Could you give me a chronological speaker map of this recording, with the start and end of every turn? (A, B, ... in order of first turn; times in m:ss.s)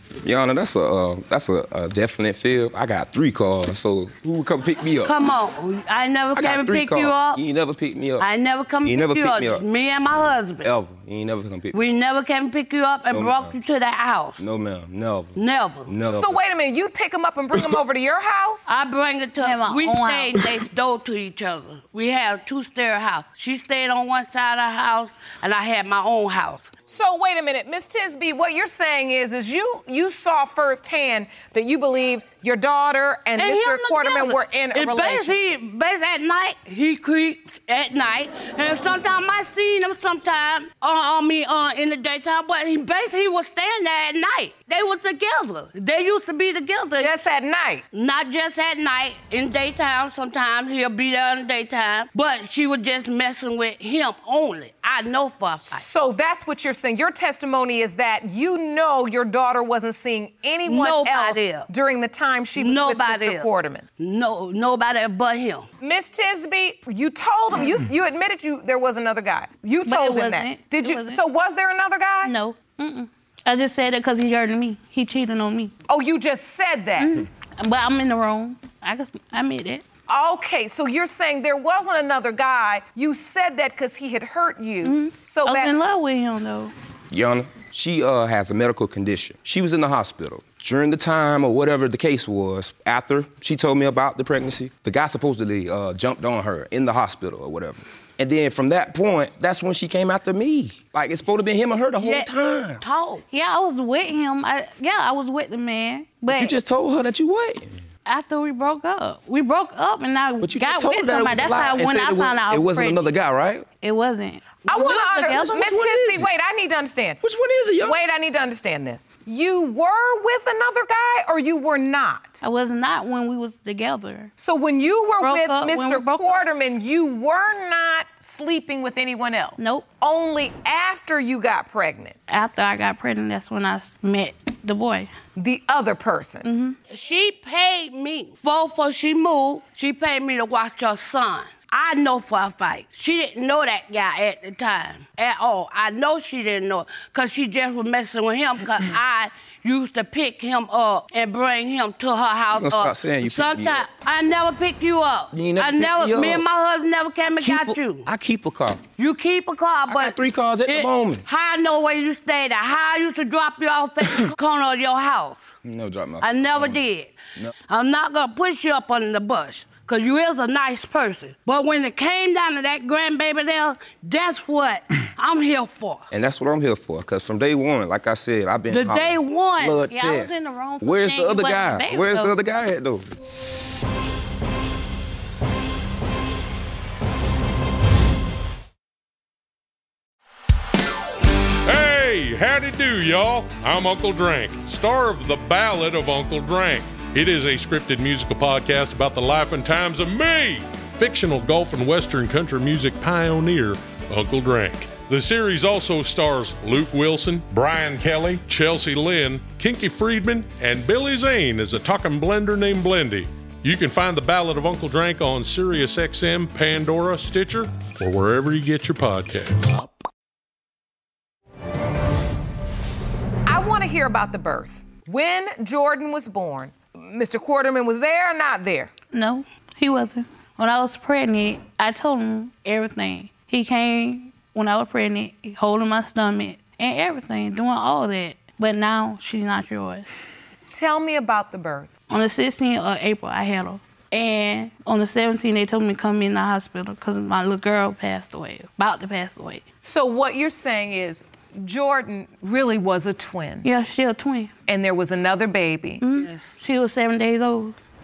0:00.2-0:05.2 A
0:05.0-0:07.4 B
0:06.4-0:08.3 A
0:08.2-0:10.7 B
0:08.8-0:09.6 A
0:10.6-0:11.8 A
0:11.7-0:14.4 B
0:13.1-0:13.6 A
0:14.4-0:15.4 A
0:15.4-0:16.0 B
0:15.9-0:16.4 A
0:16.1-0:18.7 C
0:18.7-0:26.7 B
0:19.4-0:20.4 D
0:26.9-0:35.4 C
0:33.4-0:47.2 B
0:47.0-0:47.8 C
0:47.9-0:55.9 B
0:55.7-1:03.9 C
1:00.6-1:01.7 B
1:02.5-1:05.7 B
1:05.8-1:12.3 C
1:09.9-1:11.2 D
1:12.2-1:15.7 D
1:15.9-1:17.1 C
1:17.0-1:19.8 D
1:20.1-1:25.8 C
1:24.8-1:26.7 D
1:27.1-1:42.8 A
1:42.0-1:43.2 B
1:43.3-1:46.6 D
1:46.3-1:47.8 A
1:48.1-1:53.1 D
1:50.4-1:53.6 A
1:53.8-1:55.8 D
1:54.7-1:57.2 C
1:55.6-1:56.3 A
1:57.2-1:58.0 A
1:57.8-2:02.4 C
2:02.4-2:04.3 D
2:04.4-2:12.2 C
2:05.2-2:06.4 D
2:09.6-2:09.9 D
2:12.3-2:15.1 D
2:15.4-2:16.5 C
2:16.4-2:16.8 D
2:16.9-2:38.1 B
2:32.5-2:33.9 A
2:35.3-2:36.5 A
2:37.4-2:38.8 A
2:39.0-2:45.5 B
2:39.9-2:41.3 A
2:45.6-2:46.8 A
2:46.2-2:47.1 B
2:47.7-2:56.1 B
2:56.1-3:03.1 A
2:58.7-2:59.8 B
2:59.9-3:02.3 D
3:11.7-3:39.8 E
3:43.5-3:48.9 C
3:49.1-4:00.1 D
4:00.7-4:01.9 C
4:02.1-4:09.6 D
4:09.8-4:13.7 C
4:13.6-4:14.5 D
4:14.7-4:16.0 C
4:16.0-4:17.8 D
4:16.2-4:16.6 B